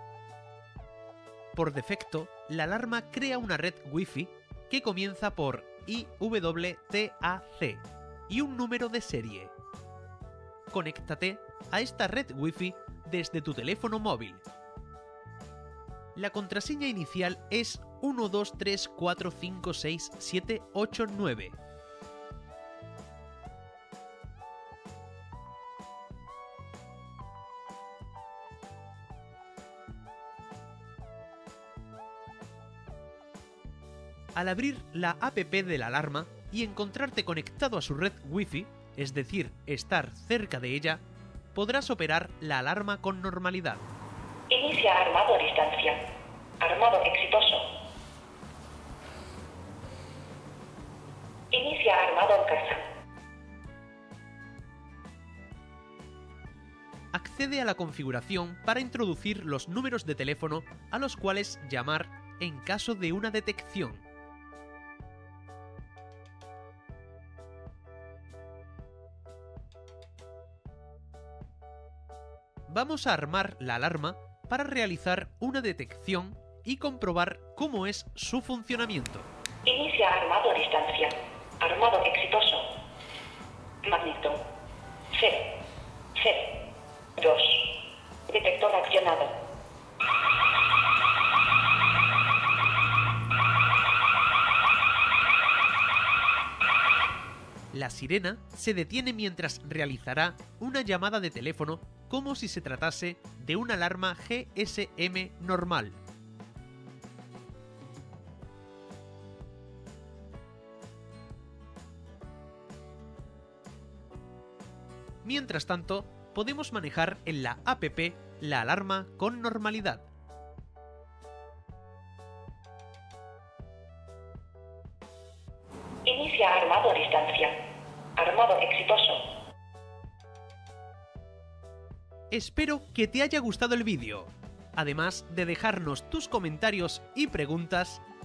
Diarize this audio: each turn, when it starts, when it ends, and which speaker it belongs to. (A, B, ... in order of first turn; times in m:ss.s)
0:01.6-0:09.5 A
0:10.7-0:14.4 A
0:16.2-0:21.6 A
0:34.4-0:41.0 A
0:41.5-0:43.8 A
0:44.5-0:46.1 B
0:46.6-0:47.7 B
0:51.5-0:52.8 B
0:57.1-1:04.0 A
1:12.7-1:19.3 A
1:19.6-1:22.7 B
1:23.8-1:24.5 B
1:25.1-1:25.6 B
1:26.2-1:26.6 B
1:27.2-1:29.4 B
1:37.7-1:46.0 A
1:55.2-2:00.1 A
2:06.0-2:07.6 B
2:08.2-2:09.3 B
2:12.3-2:18.0 A